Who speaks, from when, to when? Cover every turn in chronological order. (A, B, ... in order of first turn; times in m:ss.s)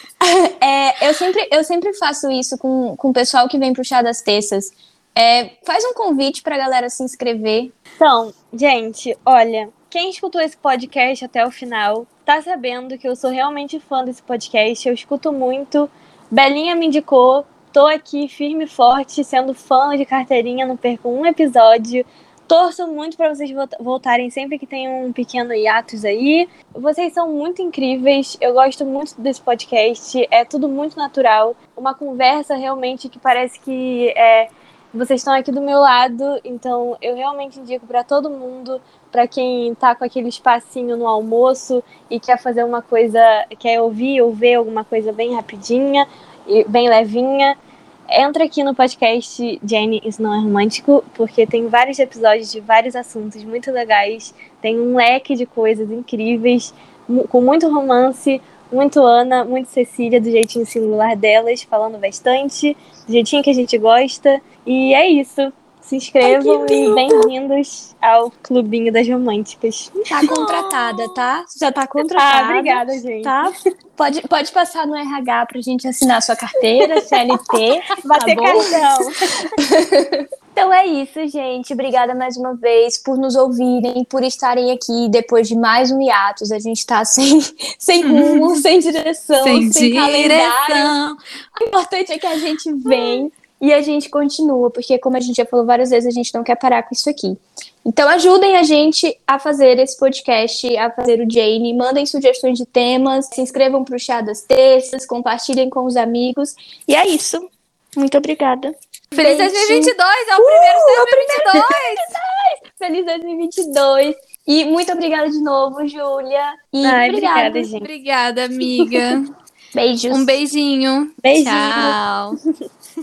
0:00.2-0:07.7 A
0:08.0-0:47.6 B
0:48.1-1:10.9 B
1:06.2-1:07.2 A
1:10.1-1:18.8 A
1:12.2-1:13.3 B
1:18.0-1:19.4 B
1:19.6-1:30.9 A
1:28.0-1:28.6 C
1:29.4-1:31.2 C
1:31.6-1:57.7 A
1:49.1-1:52.0 C
1:56.8-1:57.9 B
1:57.8-1:59.3 C
1:59.7-2:00.4 A
2:00.1-2:02.4 C
2:01.2-2:02.0 B